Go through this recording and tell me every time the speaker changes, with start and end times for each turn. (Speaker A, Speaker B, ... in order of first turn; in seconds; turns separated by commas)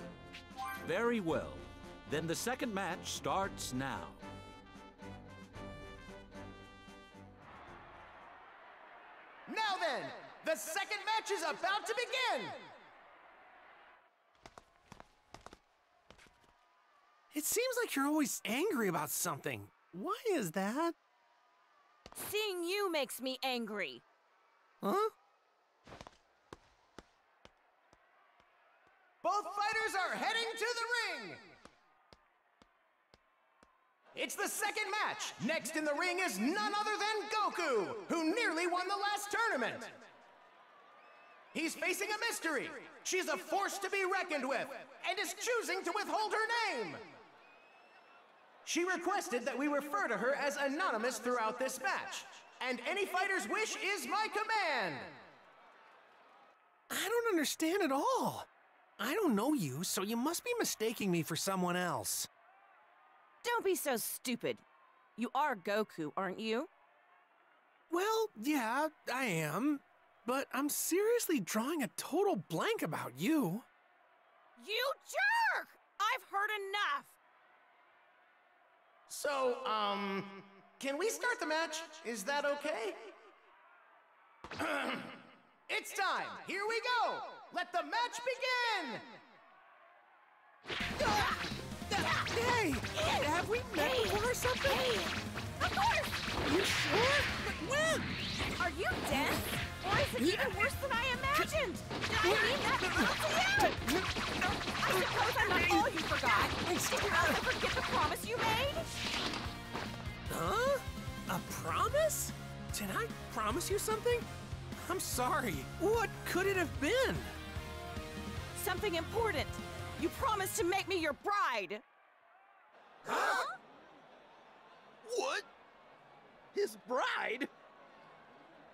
Speaker A: 0.8-4.2, Speaker B: 9.5-12.6, Speaker C: 17.3-20.9, Speaker D: 22.1-24.0, Speaker C: 24.8-25.1, Speaker B: 29.2-31.4, Speaker B: 34.1-40.0, Speaker B: 41.5-47.0, Speaker B: 48.6-55.1, Speaker C: 56.9-58.5, Speaker C: 59.0-62.3, Speaker D: 63.4-64.6, Speaker D: 65.2-66.7, Speaker C: 67.9-73.7, Speaker D: 74.6-77.2, Speaker B: 79.1-83.1, Speaker B: 84.6-89.1, Speaker C: 91.0-94.9, Speaker D: 93.0-96.1, Speaker C: 96.4-98.1, Speaker D: 98.6-103.8, Speaker C: 100.2-100.7, Speaker C: 102.2-105.9, Speaker D: 104.8-108.9, Speaker C: 106.6-107.4, Speaker C: 110.3-117.3, Speaker D: 118.5-121.8